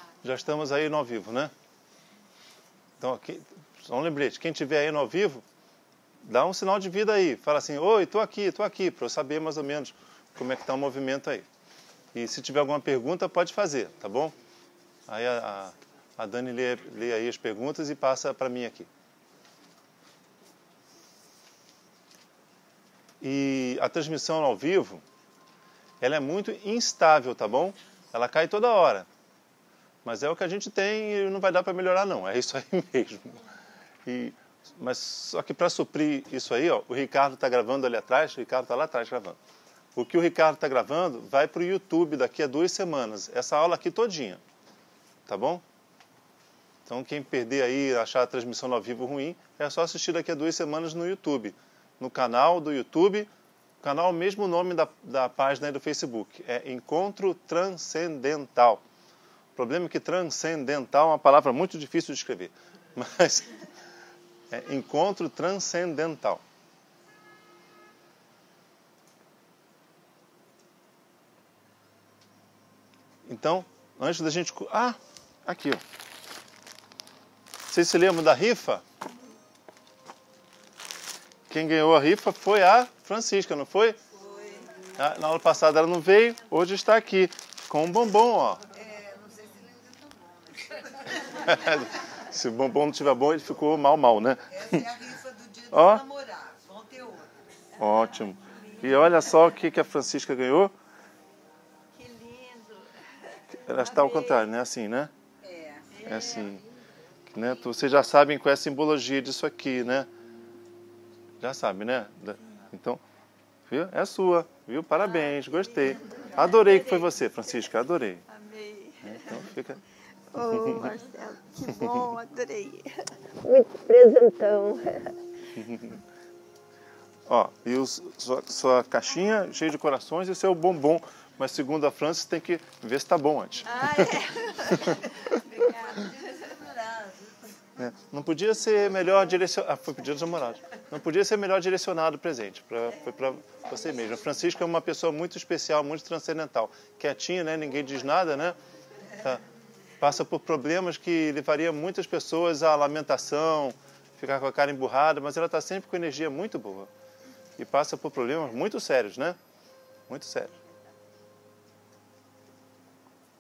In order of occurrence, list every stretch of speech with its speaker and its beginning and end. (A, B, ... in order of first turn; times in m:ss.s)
0:00.2-0:01.5 A
0:03.0-0:05.4 A
0:06.2-0:11.5 A
0:12.1-0:14.3 A
0:15.1-0:18.9 A
0:23.2-0:25.0 A
0:26.0-0:29.1 A
0:30.0-0:33.4 A
0:34.1-0:39.4 A
0:40.0-0:44.4 A
0:45.3-0:45.6 A
0:46.9-0:53.3 A
0:53.8-0:58.8 A
0:59.6-1:03.6 A
1:04.5-1:06.4 A
1:13.3-1:15.8 A
1:17.7-1:18.8 A
1:21.5-1:24.0 A
1:24.2-1:24.8 B
1:25.0-1:28.6 A
1:28.7-1:31.8 C
1:31.3-1:34.8 A
1:34.5-1:37.7 C
1:35.7-1:36.0 A
1:37.8-1:40.7 A
1:37.9-1:39.5 B
1:41.9-1:44.3 B
1:43.6-1:45.1 A
1:43.8-1:44.4 C
1:45.4-1:46.5 C
1:45.9-1:47.6 B
1:46.0-1:46.6 A
1:47.3-1:50.1 A
1:51.4-1:53.0 A
1:53.7-1:58.2 A
1:55.3-1:56.8 C
1:56.0-1:57.7 B
1:58.3-1:59.5 B
1:59.0-1:59.8 A
2:00.3-2:05.2 B
2:00.5-2:00.9 A
2:01.7-2:02.1 A
2:05.6-2:06.0 A
2:07.3-2:14.1 A
2:13.6-2:16.4 B
2:14.7-2:15.0 A
2:15.0-2:17.5 C
2:17.8-2:28.6 A
2:30.0-2:36.9 A
2:37.6-2:39.4 A
2:40.1-2:40.5 A
2:40.5-2:40.9 B